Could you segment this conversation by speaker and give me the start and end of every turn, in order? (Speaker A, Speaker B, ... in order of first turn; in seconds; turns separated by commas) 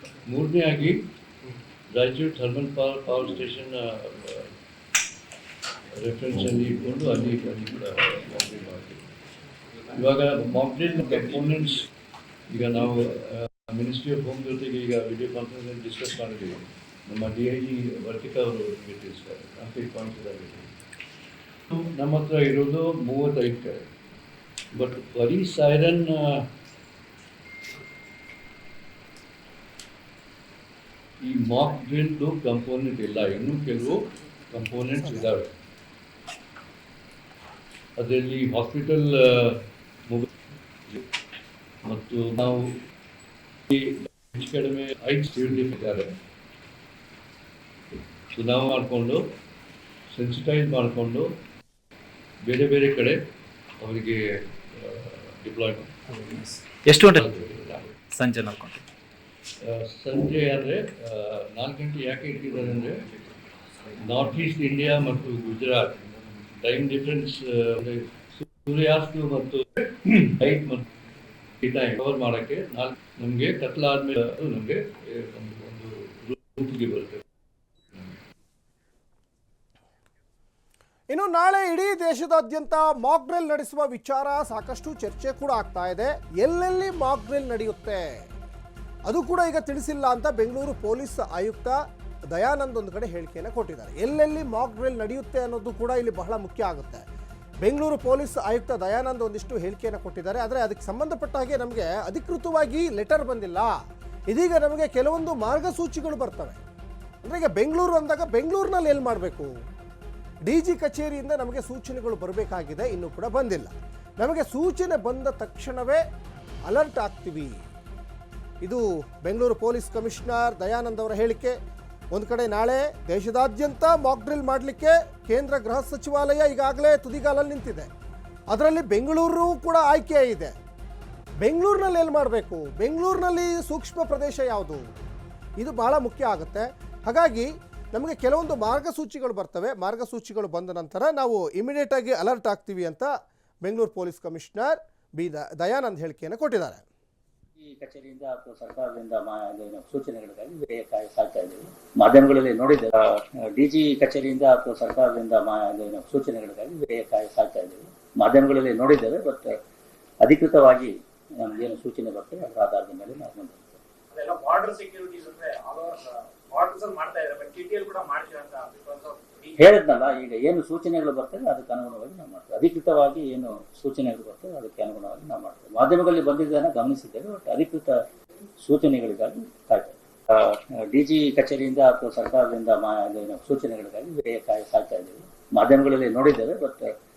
Speaker A: 0.3-1.0, Speaker A: 1.9-4.5, Speaker A: 6.0-9.0, Speaker A: 9.9-11.8, Speaker A: 12.5-20.7, Speaker A: 21.7-23.9, Speaker A: 24.7-26.4, Speaker A: 31.2-35.5, Speaker A: 38.0-40.3, Speaker A: 41.8-42.6, Speaker A: 43.7-46.1, Speaker A: 48.3-49.2, Speaker A: 50.1-51.3, Speaker A: 52.5-53.2, Speaker A: 53.8-54.2, Speaker A: 54.7-56.4, Speaker B: 56.1-57.3, Speaker A: 57.0-58.0, Speaker B: 58.1-58.8, Speaker A: 59.6-63.0, Speaker A: 64.0-66.0, Speaker A: 66.6-70.8, Speaker A: 71.6-77.2, Speaker C: 81.1-88.0, Speaker C: 89.1-91.8, Speaker C: 92.3-97.0, Speaker C: 97.6-103.7, Speaker C: 104.3-106.6, Speaker C: 107.2-109.5, Speaker C: 110.5-116.0, Speaker C: 116.7-117.6, Speaker C: 118.6-121.5, Speaker C: 122.1-127.9, Speaker C: 128.5-130.5, Speaker C: 131.4-134.8, Speaker C: 135.6-143.1, Speaker C: 143.6-146.8, Speaker D: 147.6-159.5, Speaker D: 160.2-163.8, Speaker E: 164.1-169.7, Speaker D: 169.6-177.9, Speaker D: 178.6-186.9